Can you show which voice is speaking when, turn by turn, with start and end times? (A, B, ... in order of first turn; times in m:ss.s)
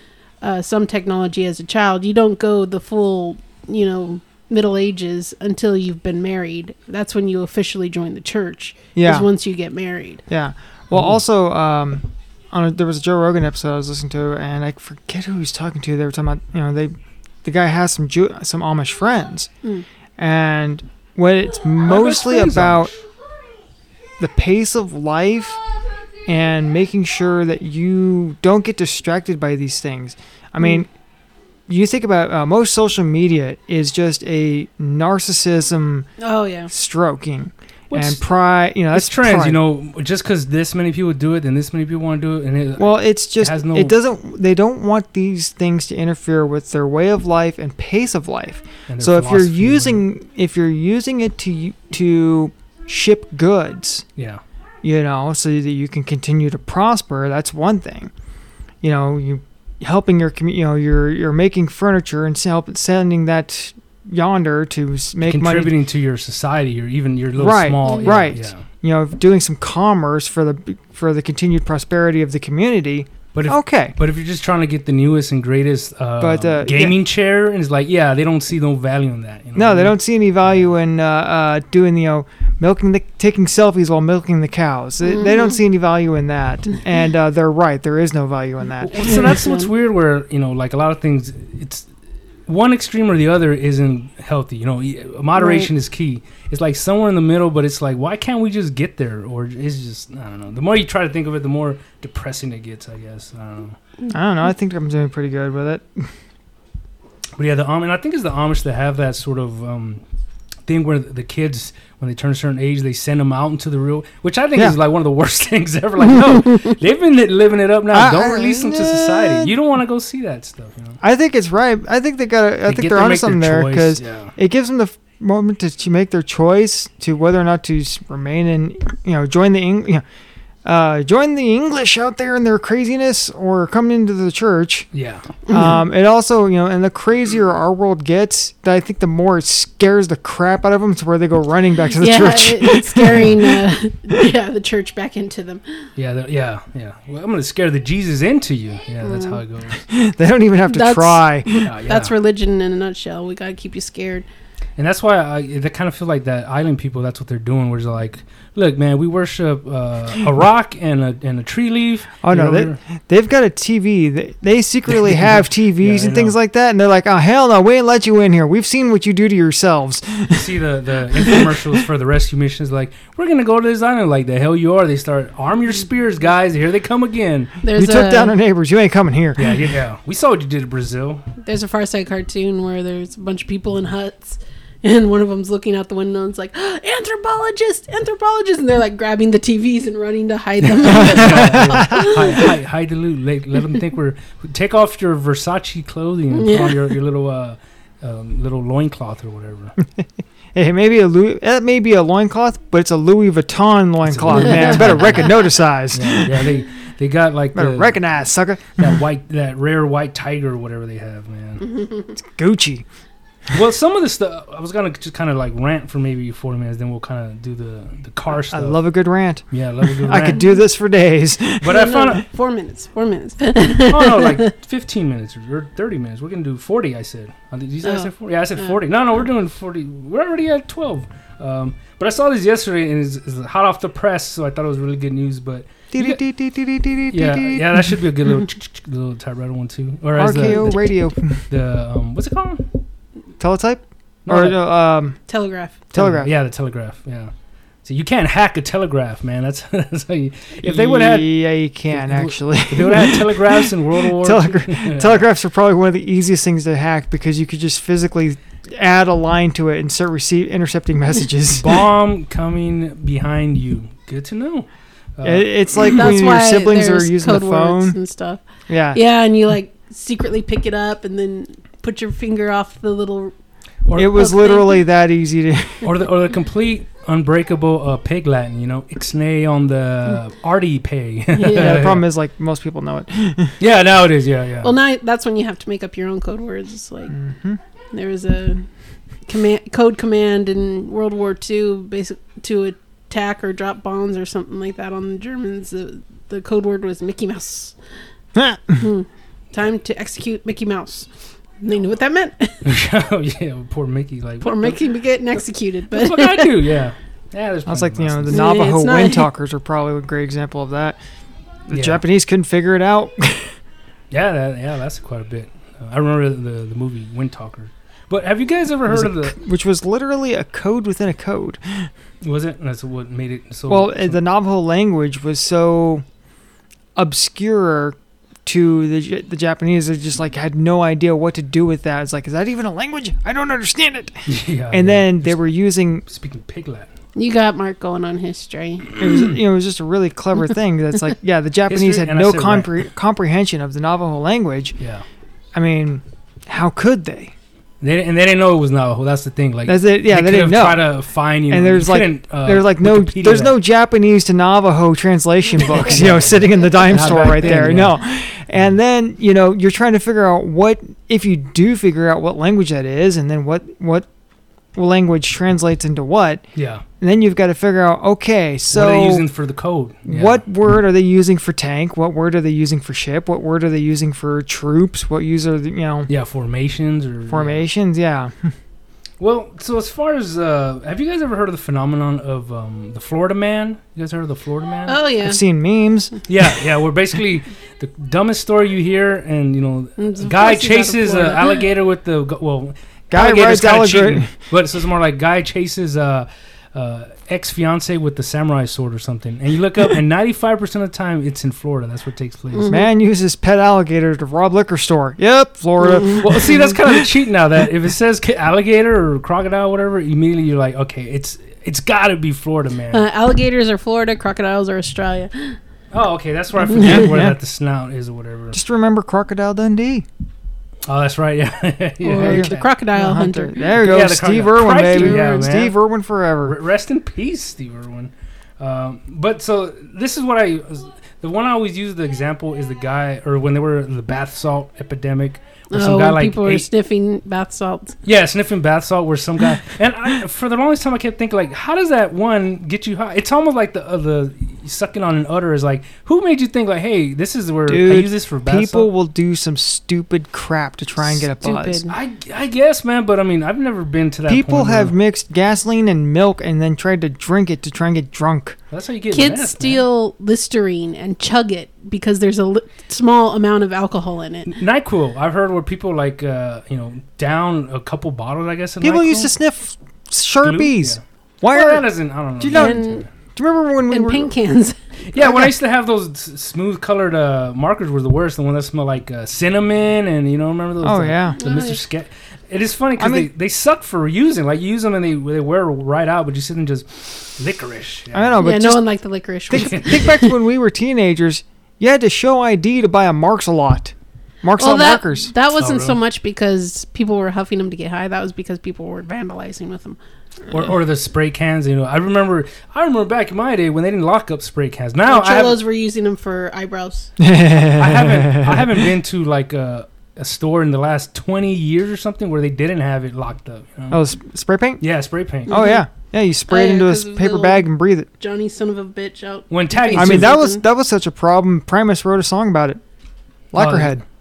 0:00.4-0:10.2 A
0:09.0-0:09.3 B
0:10.3-0:19.5 B
0:20.2-0:22.9 B
0:21.8-0:23.0 C
0:24.2-0:25.6 B
0:26.3-0:30.9 B
0:31.7-0:36.1 B
0:36.2-0:36.7 A
0:36.7-0:39.6 B
0:37.9-0:38.2 C
0:38.9-0:44.0 C
0:42.8-0:54.1 B
0:48.9-0:50.0 C
0:54.8-0:58.1 B
0:58.8-1:05.7 B
1:05.2-1:08.6 C
1:07.4-1:14.0 B
1:07.8-1:08.3 A
1:13.3-1:19.9 C
1:16.2-1:17.0 B
1:19.6-1:29.2 B
1:25.0-1:25.6 A
1:28.8-1:31.9 C
1:29.0-1:29.7 A
1:32.5-1:43.8 C
1:35.4-1:35.7 A
1:44.1-1:46.1 B
1:47.4-1:50.0 C
1:50.7-2:01.0 C
1:57.9-1:59.5 B
2:01.0-2:10.0 B
2:02.7-2:04.3 C
2:10.6-2:14.9 B
2:14.9-2:15.3 C
2:15.5-2:15.8 A
2:15.5-2:23.6 B
2:21.9-2:25.8 A
2:26.0-2:29.8 C
2:29.0-2:29.4 A
2:29.8-2:31.6 B
2:30.7-2:34.3 A
2:31.6-2:32.1 C
2:34.8-2:42.8 C
2:42.2-2:50.5 B
2:45.0-2:46.4 C
2:50.3-2:57.5 C
2:51.1-2:51.8 B
2:57.6-2:58.4 A
2:57.8-2:59.7 B
2:59.4-3:01.3 C
3:01.4-3:12.5 A
3:10.6-3:19.7 C
3:10.9-3:12.1 B
3:16.3-3:16.8 A
3:19.8-3:26.6 B
3:24.1-3:25.4 C
3:24.3-3:24.8 A
3:25.9-3:28.0 C
3:27.6-3:29.0 B
3:28.8-3:31.6 C
3:31.6-3:32.2 A
3:32.2-3:32.8 B
3:33.5-3:38.8 C
3:38.3-3:41.9 B
3:39.5-3:40.5 C
3:41.6-3:42.2 C
3:41.6-3:44.5 A
3:43.7-3:56.2 C
3:47.8-3:48.7 A
3:55.9-3:58.0 B
3:57.1-4:01.0 C
4:00.2-4:01.4 B
4:01.5-4:02.7 C
4:03.4-4:05.2 B
4:04.3-4:04.6 C
4:05.3-4:05.8 A
4:05.9-4:06.3 B
4:05.9-4:07.3 C
4:07.8-4:11.4 C
4:10.6-4:21.8 B
4:11.9-4:15.3 C
4:21.6-4:26.0 C
4:25.2-4:28.0 B
4:25.8-4:33.3 A
4:28.7-4:29.0 B
4:33.9-4:34.3 C
4:34.0-4:35.9 B
4:34.1-4:34.8 A
4:35.8-4:42.0 C
4:41.3-4:41.8 A
4:41.5-4:43.6 B
4:43.6-4:44.8 C
4:44.6-4:47.2 A
4:47.1-4:47.6 B
4:47.9-4:48.7 A
4:49.3-4:57.8 A
4:58.4-4:58.8 B
4:58.8-5:01.1 A
5:01.6-5:02.7 A
5:02.6-5:04.8 C
5:04.4-5:06.7 A
5:05.9-5:08.4 C
5:07.7-5:11.0 B
5:08.3-5:09.3 A
5:11.7-5:13.6 B
5:11.7-5:12.0 C
5:14.1-5:19.4 C
5:18.9-5:21.9 B
5:22.2-5:24.2 C
5:23.7-5:26.0 B
5:27.0-5:36.0 B
5:34.3-5:35.4 C
5:36.1-5:36.9 C
5:37.2-5:39.0 A
5:38.9-5:39.4 C
5:39.0-5:44.8 B
5:41.7-5:42.8 C
5:45.5-5:47.3 B
5:47.8-5:53.6 C
5:49.7-5:50.9 B
5:51.5-6:04.1 B
5:55.7-5:58.0 C
6:04.8-6:06.4 B
6:06.6-6:06.8 C
6:07.0-6:09.2 B
6:08.7-6:10.4 C
6:10.1-6:16.1 B
6:16.1-6:17.6 C
6:17.3-6:18.5 B
6:19.2-6:25.0 C
6:24.9-6:25.4 A
6:25.2-6:26.1 B
6:26.3-6:42.7 C
6:30.0-6:31.6 A
6:33.1-6:34.3 B
6:42.5-6:42.9 A
6:42.7-6:47.0 B
6:45.8-6:46.7 A
6:46.2-6:53.0 C
6:52.9-6:55.6 A
6:55.9-6:58.6 C
6:56.7-6:57.0 A
6:56.8-6:57.4 B
6:58.5-7:00.1 B
7:00.9-7:02.7 C
7:02.0-7:03.6 A
7:02.2-7:06.6 B
7:03.7-7:05.8 C
7:06.4-7:16.7 C
7:15.7-7:18.0 A
7:18.0-7:28.9 C
7:27.7-7:31.8 B
7:31.4-7:31.9 A
7:31.9-7:34.9 C
7:34.3-7:38.6 B
7:38.7-7:39.8 C
7:39.1-7:44.5 A
7:44.5-7:49.3 C
7:48.8-7:51.9 B
7:50.4-7:53.1 C
7:52.4-7:54.3 B
7:52.5-7:53.0 A
7:53.9-7:54.8 A
7:55.1-8:08.4 C
7:55.2-7:55.5 B
8:00.8-8:01.4 B
8:01.4-8:01.8 A
8:03.0-8:03.3 B
8:08.1-8:08.8 B
8:08.4-8:10.3 A
8:09.5-8:15.3 B
8:09.5-8:10.1 C
8:14.6-8:20.0 A
8:15.6-8:16.0 C
8:20.5-8:25.6 C
8:25.1-8:27.1 A
8:27.2-8:28.9 B
8:27.8-8:34.0 C
8:33.9-8:34.8 B
8:34.8-8:35.6 C
8:35.5-8:35.8 A
8:35.5-8:38.1 B
8:36.5-8:37.7 A
8:38.2-8:40.6 A
8:39.5-8:40.4 C
8:40.0-8:42.8 B
8:43.5-8:44.0 B
8:43.6-8:44.0 C